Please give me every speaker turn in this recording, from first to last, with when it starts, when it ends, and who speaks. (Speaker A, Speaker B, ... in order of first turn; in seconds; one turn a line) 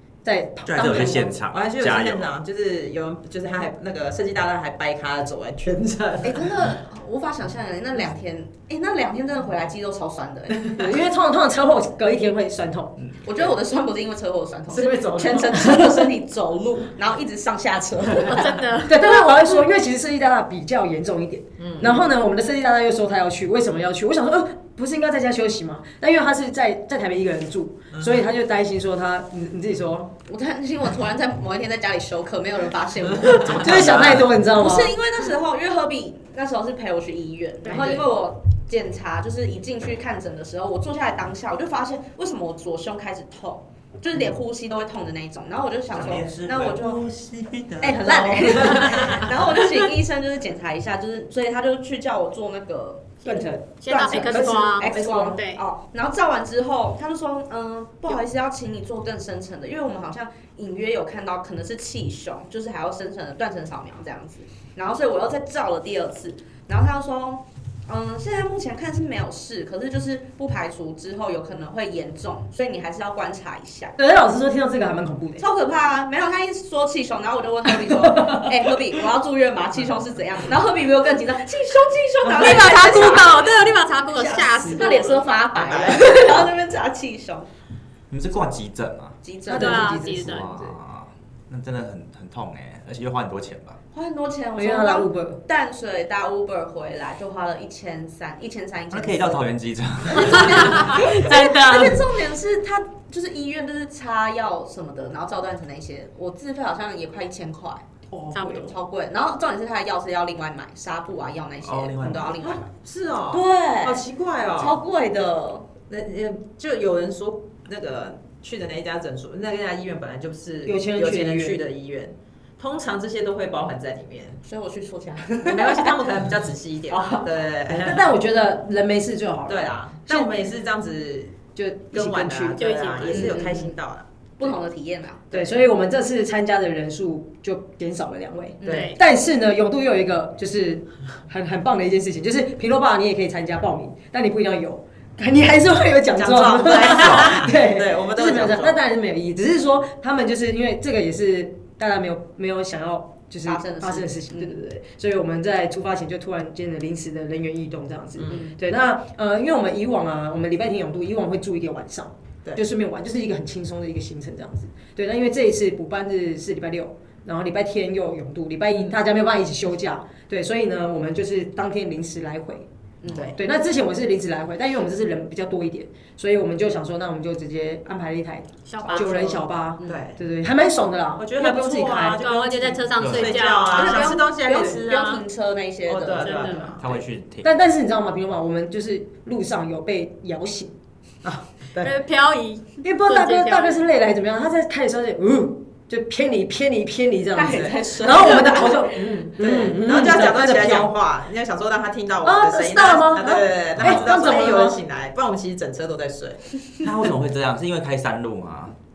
Speaker A: 0.2-1.4
Speaker B: 0.7-2.3
Speaker C: 0.8-6.5
Speaker D: 6.2-10.7
Speaker A: 10.8-13.0
Speaker D: 13.2-18.6
Speaker C: 14.7-15.7
Speaker A: 15.5-16.1
Speaker E: 18.2-19.5
Speaker A: 18.9-30.1
Speaker C: 21.6-22.1
Speaker C: 27.9-28.2
Speaker D: 30.3-47.0
Speaker B: 33.4-34.3
Speaker A: 33.5-34.9
Speaker E: 37.6-38.0
Speaker C: 37.7-38.0
Speaker B: 45.9-49.2
Speaker D: 47.8-53.4
Speaker C: 48.6-49.1
Speaker A: 53.2-55.4
Speaker E: 53.8-55.6
Speaker D: 54.8-74.0
Speaker A: 74.0-75.5
Speaker D: 75.4-83.5
Speaker A: 78.0-78.5
Speaker C: 82.3-83.3
Speaker E: 82.4-85.3
Speaker D: 84.2-87.5
Speaker C: 84.3-84.7
Speaker C: 85.5-86.5
Speaker B: 88.1-89.2
Speaker D: 89.2-90.0
Speaker A: 89.5-90.8
Speaker E: 89.5-90.5
Speaker B: 90.2-93.8
Speaker D: 93.9-99.4
Speaker A: 94.6-95.4
Speaker B: 98.9-100.9
Speaker D: 100.1-107.8
Speaker E: 100.3-102.0
Speaker A: 108.1-108.8
Speaker E: 108.3-108.7
Speaker D: 108.5-112.7
Speaker B: 111.6-112.5
Speaker C: 112.4-114.8
Speaker D: 113.3-115.7
Speaker C: 115.9-124.4
Speaker A: 120.7-121.7
Speaker D: 124.4-126.1
Speaker C: 125.5-128.1
Speaker D: 126.9-127.4
Speaker A: 127.7-130.3
Speaker C: 129.5-131.4
Speaker A: 131.6-133.0
Speaker C: 131.9-134.5
Speaker E: 132.6-133.4
Speaker D: 133.0-133.8
Speaker D: 134.4-135.3
Speaker C: 135.3-135.6
Speaker A: 135.3-172.7
Speaker E: 138.6-139.0
Speaker C: 138.7-138.9
Speaker C: 146.2-148.8
Speaker B: 146.9-147.4
Speaker D: 153.5-154.6
Speaker C: 158.2-158.4
Speaker D: 158.3-158.6
Speaker D: 173.0-173.3
Speaker C: 173.1-173.4
Speaker A: 173.4-182.3
Speaker E: 178.7-179.4
Speaker C: 179.8-180.2
Speaker C: 181.2-185.2
Speaker E: 182.2-185.2
Speaker B: 183.0-183.4
Speaker A: 183.7-184.8
Speaker D: 183.9-186.8
Speaker C: 185.9-186.9
Speaker E: 186.2-186.8
Speaker B: 186.8-187.5
Speaker A: 187.4-190.7
Speaker C: 191.2-191.9
Speaker E: 191.8-193.8
Speaker A: 192.8-200.9
Speaker D: 197.3-198.9
Speaker C: 197.5-197.8
Speaker C: 199.4-206.5
Speaker A: 202.2-204.8
Speaker B: 203.8-204.1
Speaker B: 206.8-208.8